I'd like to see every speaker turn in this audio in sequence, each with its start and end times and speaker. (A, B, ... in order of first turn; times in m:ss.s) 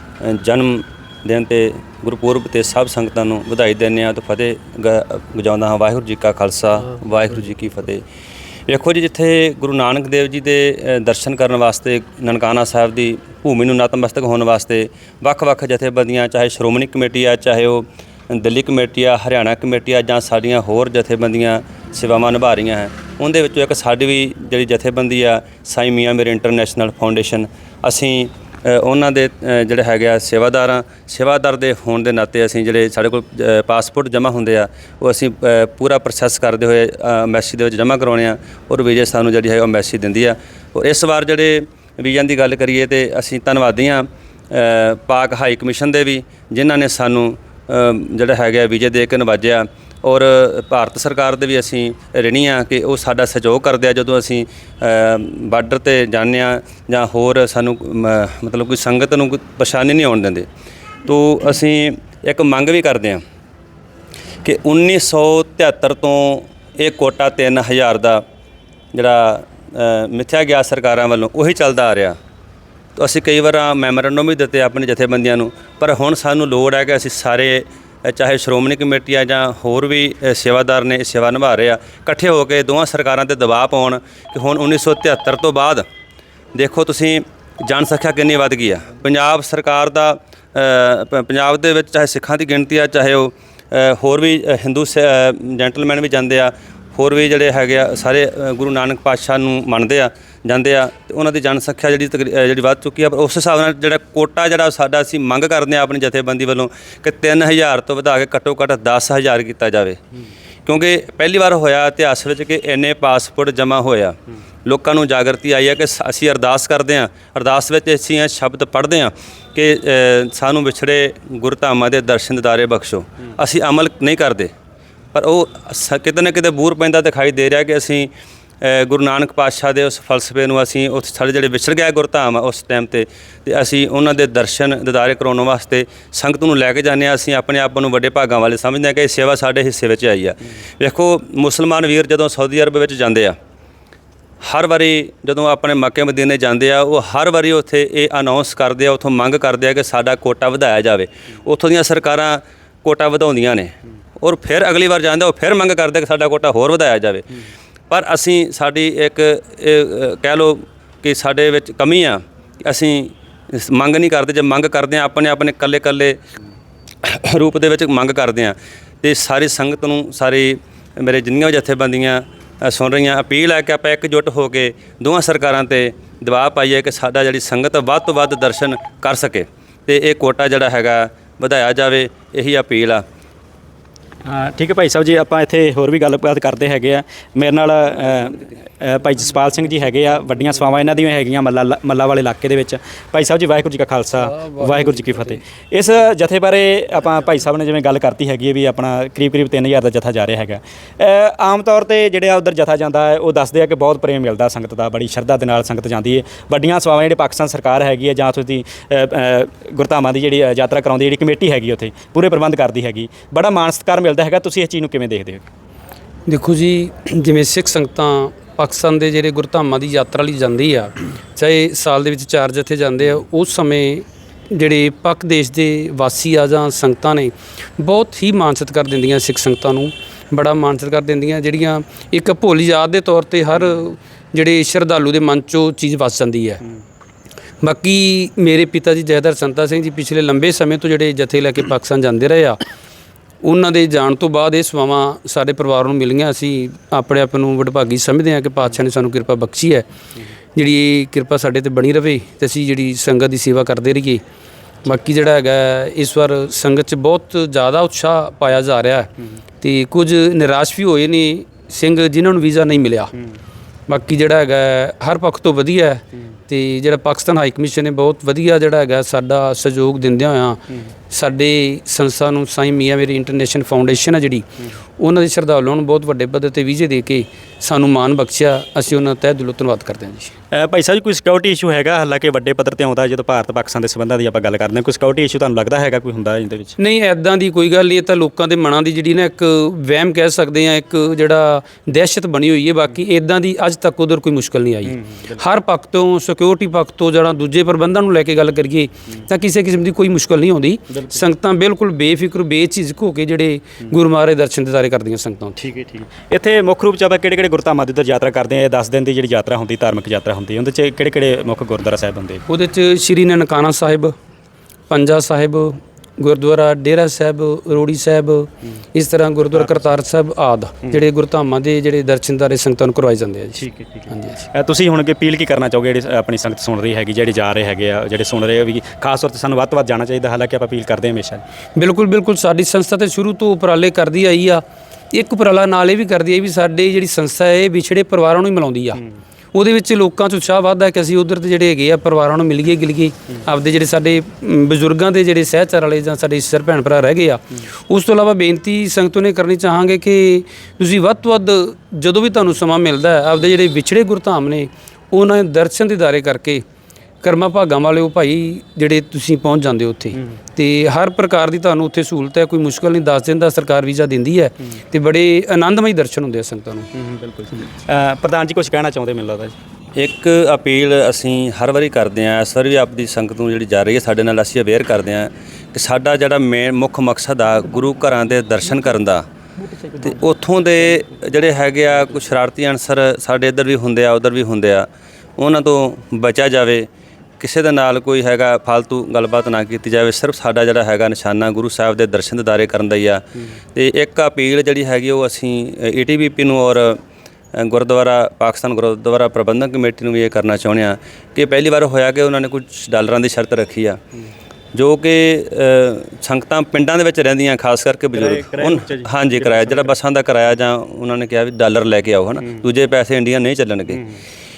0:00.2-0:08.0 A
0:08.7-1:00.5 A
1:01.0-1:03.2 A
1:04.4-1:08.2 A
1:08.9-1:12.2 A
1:13.0-1:25.8 A
1:26.5-1:50.0 A
1:50.6-2:04.5 A
2:05.1-2:08.1 A
2:08.6-2:23.4 A
2:24.4-2:37.2 A
2:37.9-2:46.2 A
2:47.0-3:03.0 A
3:04.2-3:35.4 B
3:36.3-3:56.6 C
3:53.6-3:53.8 B
3:57.6-4:02.6 C
4:03.4-4:09.9 C
4:10.5-4:14.2 C
4:14.8-4:23.1 C
4:23.9-4:34.5 C
4:35.0-4:40.3 C
4:40.5-4:46.8 B
4:46.8-5:05.6 C
4:54.8-4:55.4 B
5:00.9-5:01.2 B
5:05.6-5:12.4 B
5:12.5-5:14.2 C
5:14.9-5:24.4 C
5:19.5-5:19.9 B
5:23.6-5:31.4 B
5:31.7-5:39.0 C
5:39.5-5:56.6 C
5:57.2-6:06.9 C
6:06.9-6:09.6 B
6:10.0-6:19.2 A
6:19.7-6:20.0 B
6:20.0-6:24.9 A
6:25.4-6:26.9 A
6:27.4-6:37.0 A
6:37.6-6:44.0 A
6:44.7-6:54.0 A
6:48.1-6:49.9 B
6:53.9-6:54.2 B